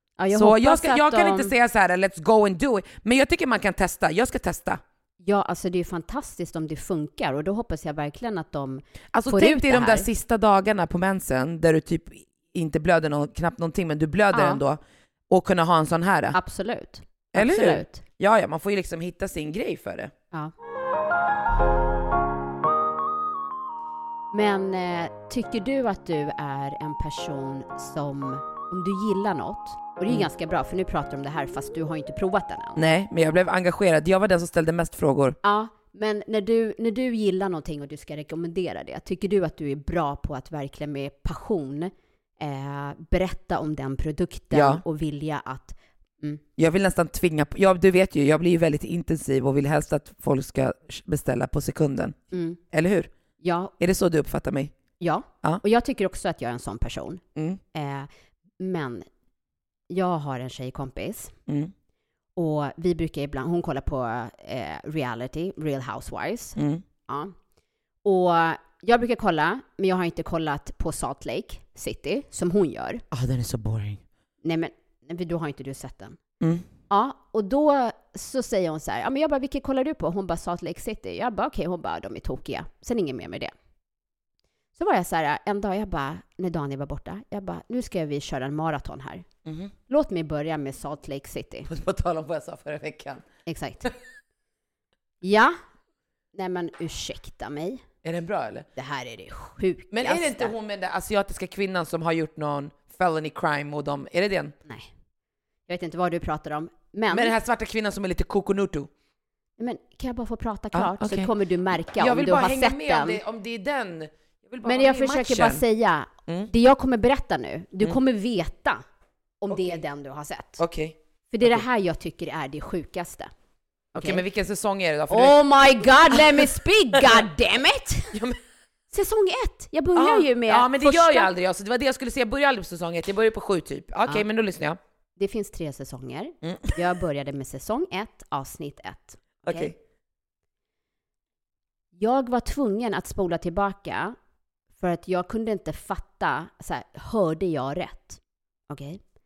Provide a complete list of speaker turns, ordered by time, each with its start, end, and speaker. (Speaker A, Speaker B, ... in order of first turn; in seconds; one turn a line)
Speaker A: 0.2-1.5
Speaker B: 0.3-4.8
Speaker A: 5.2-10.1
Speaker B: 9.1-16.4
Speaker A: 14.3-14.6
Speaker A: 16.3-18.0
Speaker B: 17.3-20.1
Speaker A: 24.3-32.8
Speaker B: 32.8-35.4
Speaker A: 35.4-46.4
Speaker B: 44.5-44.8
Speaker B: 46.6-53.1
Speaker A: 52.3-52.6
Speaker A: 53.4-53.7
Speaker B: 53.8-54.7
Speaker A: 55.0-57.2
Speaker A: 57.7-58.1
Speaker A: 58.6-59.0
Speaker A: 59.9-61.3
Speaker A: 62.4-66.5
Speaker B: 66.6-66.8
Speaker A: 67.1-67.3
Speaker A: 68.0-73.0
Speaker B: 73.1-74.0
Speaker A: 74.4-76.2
Speaker B: 76.4-76.7
Speaker A: 76.9-83.5
Speaker A: 84.8-89.2
Speaker B: 89.4-89.7
Speaker A: 89.9-91.7
Speaker B: 91.7-93.2
Speaker A: 93.5-93.9
Speaker A: 95.2-95.6
Speaker A: 96.3-97.8
Speaker B: 98.0-98.7
Speaker A: 98.8-100.5
Speaker B: 99.9-104.5
Speaker A: 105.7-107.3
Speaker B: 107.1-108.9
Speaker A: 109.6-113.2
Speaker B: 110.7-111.3
Speaker B: 111.9-115.6
Speaker A: 114.6-118.8
Speaker A: 119.4-120.6
Speaker B: 119.5-119.8
Speaker B: 120.6-121.6
Speaker A: 121.3-123.3
Speaker A: 123.9-124.2
Speaker B: 124.0-125.4
Speaker A: 125.1-128.1
Speaker B: 126.1-126.4
Speaker B: 128.1-128.4
Speaker A: 128.9-131.3
Speaker B: 129.9-134.8
Speaker A: 135.2-139.7
Speaker B: 136.4-136.7
Speaker B: 139.4-139.7
Speaker A: 141.9-144.2
Speaker A: 144.8-149.0